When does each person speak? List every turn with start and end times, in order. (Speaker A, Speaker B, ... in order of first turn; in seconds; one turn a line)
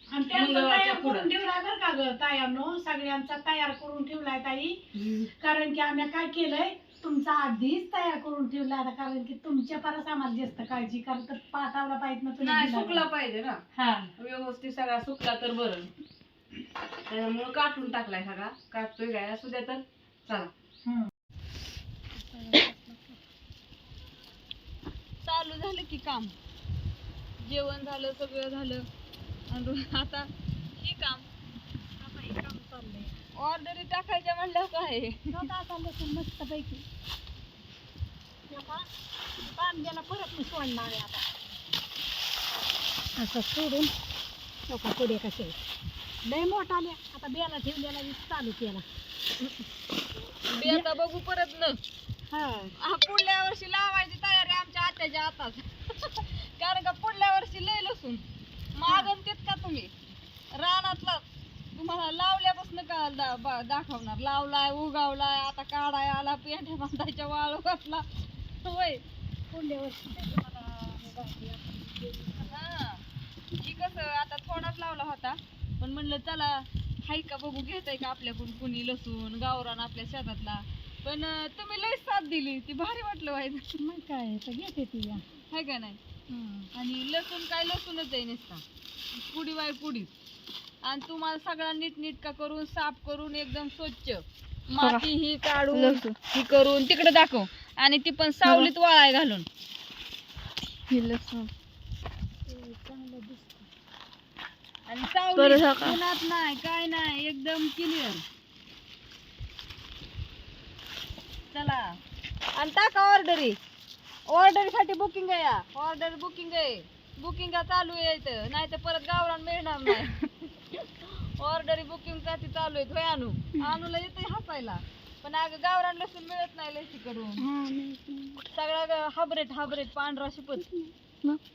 Speaker A: 0.1-4.8
Speaker B: 0.3-1.3
Speaker B: 5.0-5.3
Speaker A: 5.4-13.1
Speaker B: 12.4-13.6
Speaker A: 13.7-14.1
Speaker B: 14.2-15.9
Speaker B: 17.1-20.5
Speaker A: 20.9-21.1
Speaker A: 22.1-23.2
Speaker B: 25.2-26.3
Speaker B: 27.4-28.9
Speaker B: 29.5-31.3
Speaker A: 32.0-33.2
Speaker B: 33.4-35.3
Speaker A: 35.3-36.8
Speaker A: 38.5-38.9
Speaker A: 39.4-41.2
Speaker A: 43.2-43.9
Speaker A: 44.7-45.6
Speaker A: 46.2-48.9
Speaker B: 50.5-51.8
Speaker A: 50.6-50.9
Speaker A: 52.3-52.8
Speaker B: 52.8-58.2
Speaker B: 58.8-59.9
Speaker B: 60.5-61.2
Speaker B: 61.8-68.0
Speaker B: 68.6-69.0
Speaker A: 69.5-72.6
Speaker B: 72.5-73.0
Speaker B: 73.6-83.7
Speaker A: 83.8-85.2
Speaker B: 85.5-86.0
Speaker A: 86.3-86.7
Speaker B: 86.8-88.6
Speaker B: 89.1-90.1
Speaker B: 90.8-99.5
Speaker C: 94.8-95.1
Speaker C: 95.7-96.2
Speaker C: 98.4-98.7
Speaker C: 100.9-101.5
Speaker A: 102.5-103.7
Speaker B: 104.9-108.2
Speaker C: 105.4-106.0
Speaker B: 111.5-112.0
Speaker B: 112.5-113.6
Speaker B: 114.3-127.4
Speaker A: 127.5-128.4
Speaker B: 128.6-130.7
Speaker C: 130.8-131.4